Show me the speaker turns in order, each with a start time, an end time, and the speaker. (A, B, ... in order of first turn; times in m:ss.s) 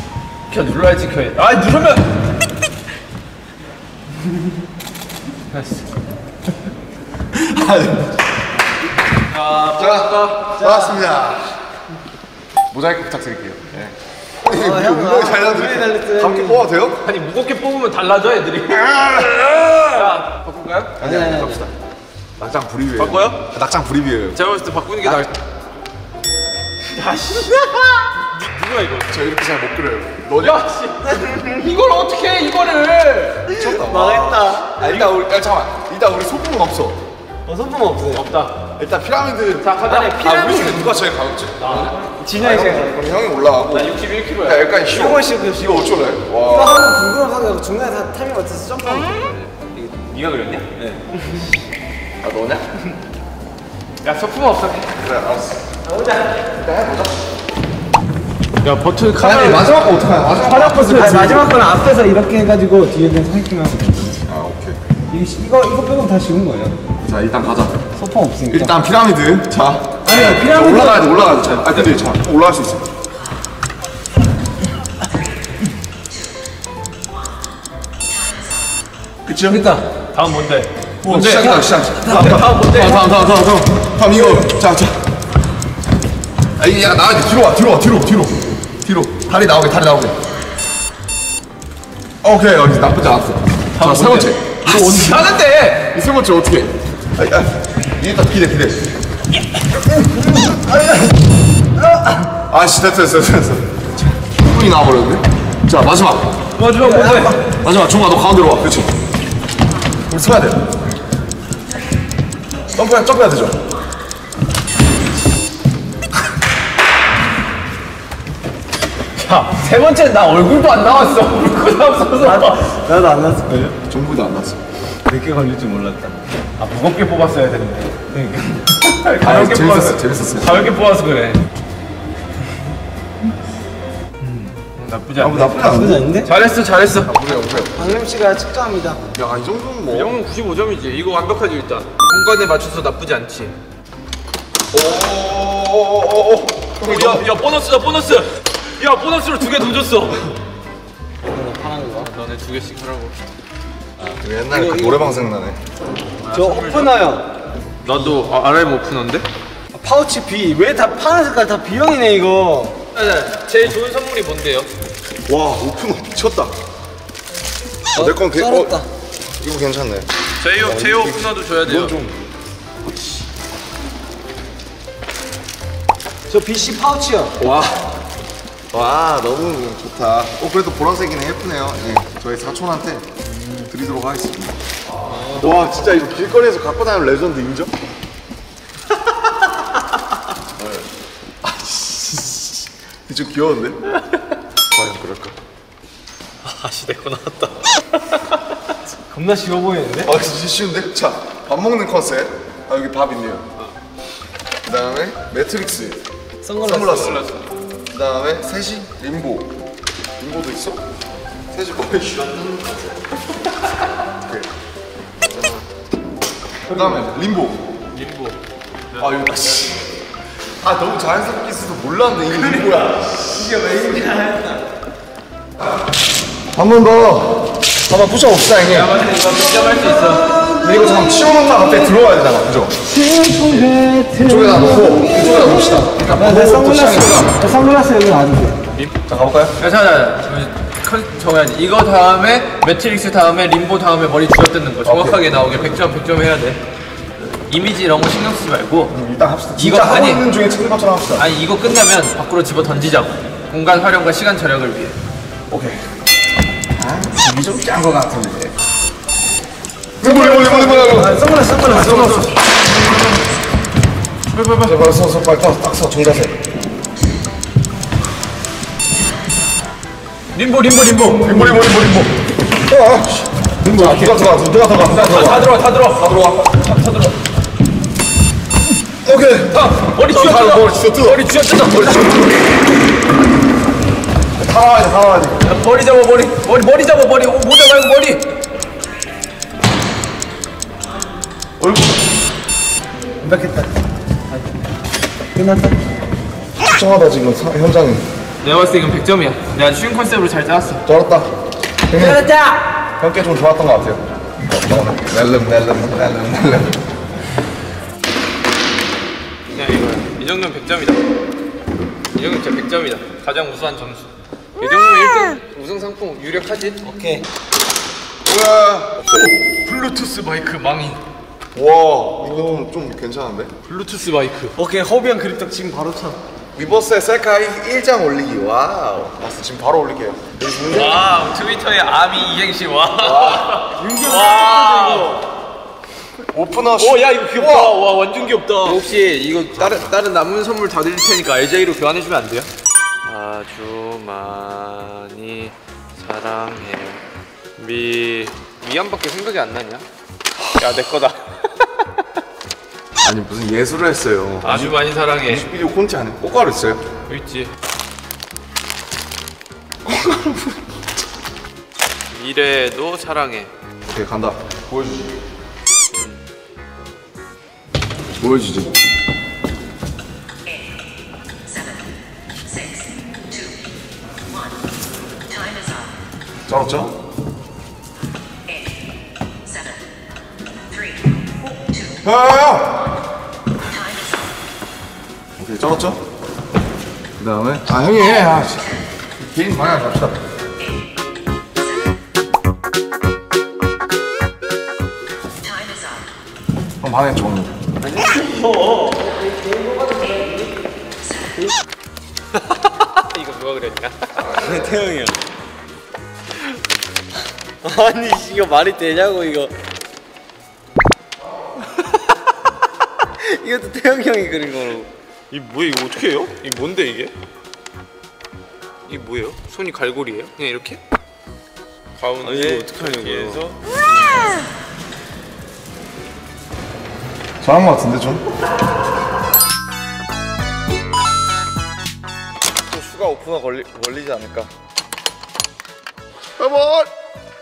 0:00.5-0:02.1 A
0:05.5-0:05.8 A
0:07.3-0:08.2 B
0:09.3-0:10.6 A
0:09.7-0:11.5 B
0:10.6-0:11.0 C
0:12.7-0:17.0 B
0:14.5-0:16.7 C
0:17.0-0:21.0 A
0:18.7-0:20.1 B
0:21.0-0:21.7 B
0:21.0-0:21.7 C
0:22.4-0:24.4 B
0:23.0-0:23.4 A
0:24.4-0:25.3 A
0:26.9-0:29.1 A
0:29.1-0:30.6 B
0:30.4-0:33.6 A
0:33.6-0:37.0 B
0:33.7-0:34.8 C
0:34.8-0:35.1 A
0:37.5-0:38.3 C
0:38.1-0:38.6 A
0:38.8-0:47.0 B
0:39.6-0:41.0 A
0:41.6-0:41.9 A
0:41.9-0:43.1 C
0:43.7-0:44.7 A
0:44.9-0:45.8 C
0:46.4-0:49.7 C
0:49.7-0:50.7 A
0:52.2-0:52.6 B
0:54.0-0:54.9 A
0:55.0-0:55.7 B
0:55.9-0:56.4 C
0:56.6-0:57.2 B
0:58.6-0:59.8 A
0:59.2-1:01.7 B
1:00.4-1:04.2 C
1:04.3-1:04.8 B
1:05.1-1:06.8 C
1:07.0-1:07.8 B
1:08.0-1:08.8 C
1:08.5-1:12.8 B
1:10.0-1:11.6 C
1:19.2-1:19.6 B
1:19.5-1:19.8 C
1:20.1-1:23.5 A
1:21.0-1:25.0 B
1:26.6-1:30.2 B
1:32.2-1:35.3 B
1:33.7-1:35.9 A
1:35.9-1:38.9 B
1:40.3-1:41.0 C
1:42.5-1:46.3 B
1:46.6-1:47.4 A
1:46.8-1:47.4 C
1:47.6-1:48.9 B
1:50.1-1:50.6 B
1:52.7-1:53.6 B
1:59.2-2:02.8 A
2:02.2-2:03.8 C
2:03.8-2:04.6 B
2:05.1-2:06.2 C
2:06.6-2:08.1 A
2:08.1-2:08.6 C
2:08.7-2:11.4 A
2:09.2-2:10.7 B
2:14.2-2:17.1 A
2:15.2-2:16.1 B
2:15.5-2:16.3 C
2:17.0-2:18.0 B
2:17.5-2:19.0 C
2:19.1-2:20.2 B
2:19.9-2:23.6 A
2:24.7-2:27.3 B
2:26.8-2:30.3 A
2:31.2-2:32.1 C
2:32.0-2:33.2 A
2:34.2-2:35.6 B
2:34.5-2:35.3 C
2:36.2-2:37.0 A
2:36.3-2:37.3 C
2:37.8-2:39.3 A
2:39.7-2:42.8 C
2:42.9-2:44.7 A
2:45.3-2:46.5 B
2:47.9-2:48.9 C
2:48.0-2:48.8 B
2:49.4-2:50.1 B
2:50.4-2:52.0 A
2:50.8-2:52.2 B
2:56.3-2:57.4 C
2:57.4-2:57.9 A
2:58.7-3:03.1 B
3:03.6-3:04.6 B
3:05.1-3:05.5 A
3:05.2-3:07.7 B
3:10.6-3:10.8 B
3:11.4-3:12.3 B
3:13.1-3:13.8 B
3:14.7-3:15.4 B
3:16.4-3:18.4 A
3:19.1-3:20.1 C
3:20.0-3:23.4 B
3:24.6-3:26.0 B
3:26.4-3:27.2 C
3:26.6-3:27.2 B
3:26.7-3:27.5 A
3:27.9-3:29.5 B
3:30.2-3:30.8 B
3:31.5-3:33.0 B
3:35.2-3:35.6 A
3:36.7-3:37.7 B
3:36.7-3:37.0 C
3:37.9-3:38.4 A
3:39.0-3:39.9 B
3:40.6-3:43.0 B
3:42.6-3:44.6 C
3:46.5-3:49.0 B
3:48.7-3:50.4 A
3:49.7-3:51.3 C
3:50.6-3:52.8 B
3:52.9-3:58.6 C
3:54.2-3:57.4 B
3:59.0-3:59.6 B
3:59.6-4:06.6 A
4:04.8-4:05.2 B
4:07.5-4:08.9 A
4:08.9-4:11.3 B
4:09.6-4:10.3 A
4:11.2-4:15.0 A
4:15.5-4:15.8 B
4:16.8-4:18.5 B
4:20.0-4:22.3 B
4:20.0-4:22.2 C
4:21.7-4:23.2 A
4:24.3-4:24.8 A
4:24.6-4:26.4 B
4:30.3-4:31.7 A
4:31.2-4:32.2 B
4:32.7-4:36.7 B
4:33.6-4:34.1 C
4:34.8-4:36.0 A
4:36.6-4:37.2 A
4:39.0-4:42.3 B
4:39.5-4:42.2 A
4:44.4-4:45.4 B
4:45.4-4:48.2 A
4:51.6-4:51.9 B
4:53.2-4:53.7 C
4:55.4-4:55.8 C
4:56.6-4:58.0 B
4:58.4-5:00.8 A
5:00.8-5:01.3 B
5:01.9-5:02.3 B
5:01.9-5:02.6 C
5:03.0-5:06.8 B
5:09.5-5:11.0 A
5:12.1-5:16.8 A
5:16.8-5:17.3 C
5:18.2-5:19.0 B
5:19.0-5:21.0 A
5:21.5-5:23.5 B
5:23.7-5:24.6 A
5:24.6-5:26.2 C
5:26.6-5:31.1 B
5:30.6-5:35.2 A
5:33.0-5:33.6 B
5:33.8-5:35.2 C
5:36.3-5:37.8 B
5:36.7-5:42.5 A
5:43.0-5:47.0 A
5:47.6-5:49.9 A
5:50.5-5:51.9 A
5:53.0-5:56.9 B
5:54.4-5:55.5 A
5:57.1-5:57.5 A
5:59.9-6:00.5 B
6:02.1-6:03.5 A
6:03.9-6:05.1 B
6:05.9-6:06.2 A
6:08.2-6:08.7 B
6:16.5-6:16.9 B
6:22.0-6:22.8 B
6:25.4-6:26.0 B
6:27.2-6:30.2 B
6:36.8-6:37.6 B
6:37.8-6:40.6 C
6:42.6-6:44.3 A
6:44.3-6:45.2 C
6:47.6-6:49.5 C
6:53.2-6:54.9 C
6:55.3-6:57.1 A
6:58.9-7:00.8 A
7:02.0-7:04.3 A
7:02.2-7:03.4 C
7:07.4-7:08.2 B
7:12.7-7:14.4 B
7:13.8-7:14.5 A
7:16.4-7:16.9 B